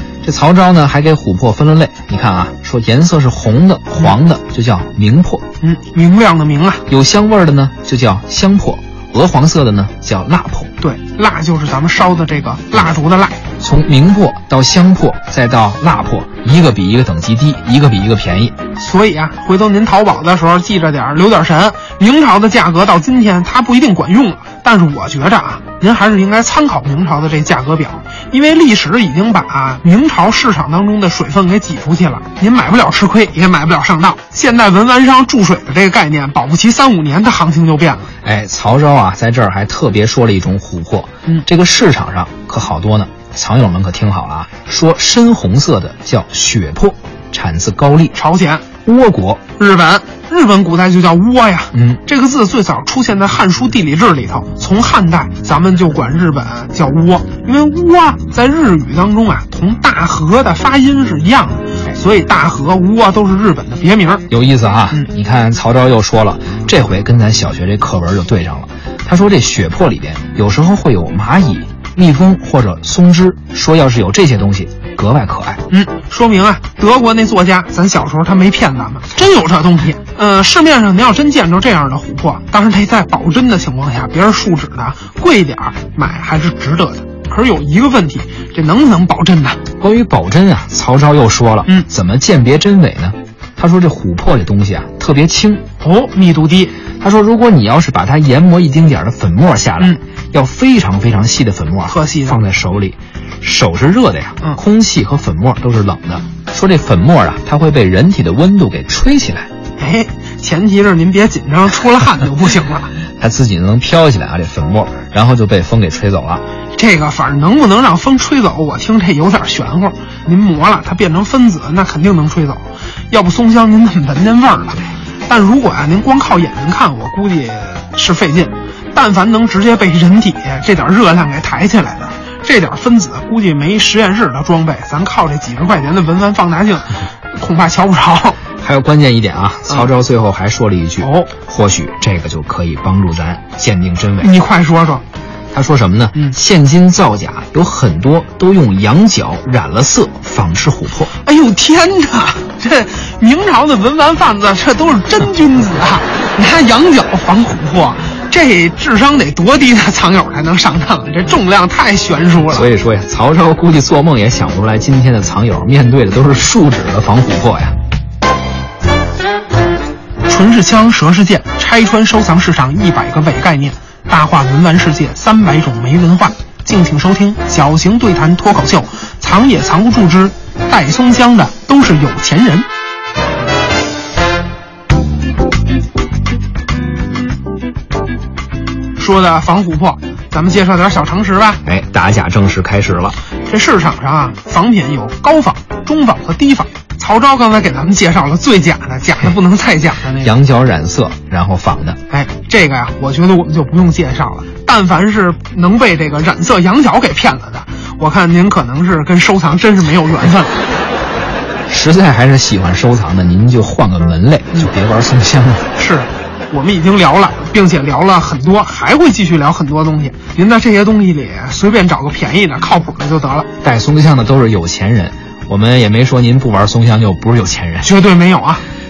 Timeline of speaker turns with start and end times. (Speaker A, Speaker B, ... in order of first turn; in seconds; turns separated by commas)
Speaker A: 0.2-5.5, Speaker B: 5.6-6.8, Speaker A: 6.9-10.7, Speaker B: 10.8-13.4, Speaker A: 13.6-18.6, Speaker B: 18.8-38.1, Speaker A: 38.2-48.2, Speaker B: 48.1-48.7, Speaker A: 48.9-49.4, Speaker B: 49.6-64.3, Speaker A: 51.7-52.0, Speaker A: 64.3-75.6, Speaker B: 75.7-89.6, Speaker A: 89.8-95.6, Speaker B: 95.8-96.8, Speaker A: 97.0-109.5, Speaker B: 101.9-102.4, Speaker B: 109.8-113.0, Speaker A: 113.2-116.4, Speaker B: 116.8-138.4, Speaker A: 138.6-144.3, Speaker B: 141.0-141.3, Speaker B: 144.2-145.0, Speaker A: 145.5-151.1, Speaker B: 151.2-162.7, Speaker A: 162.5-167.8, Speaker B: 170.3-182.7, Speaker B: 189.0-191.6, Speaker A: 191.7-193.2, Speaker B: 193.5-200.3, Speaker A: 200.2-202.0, Speaker B: 202.1-210.6, Speaker A: 211.7-215.7, Speaker B: 215.8-223.5, Speaker A: 223.6-227.9, Speaker B: 227.8-228.6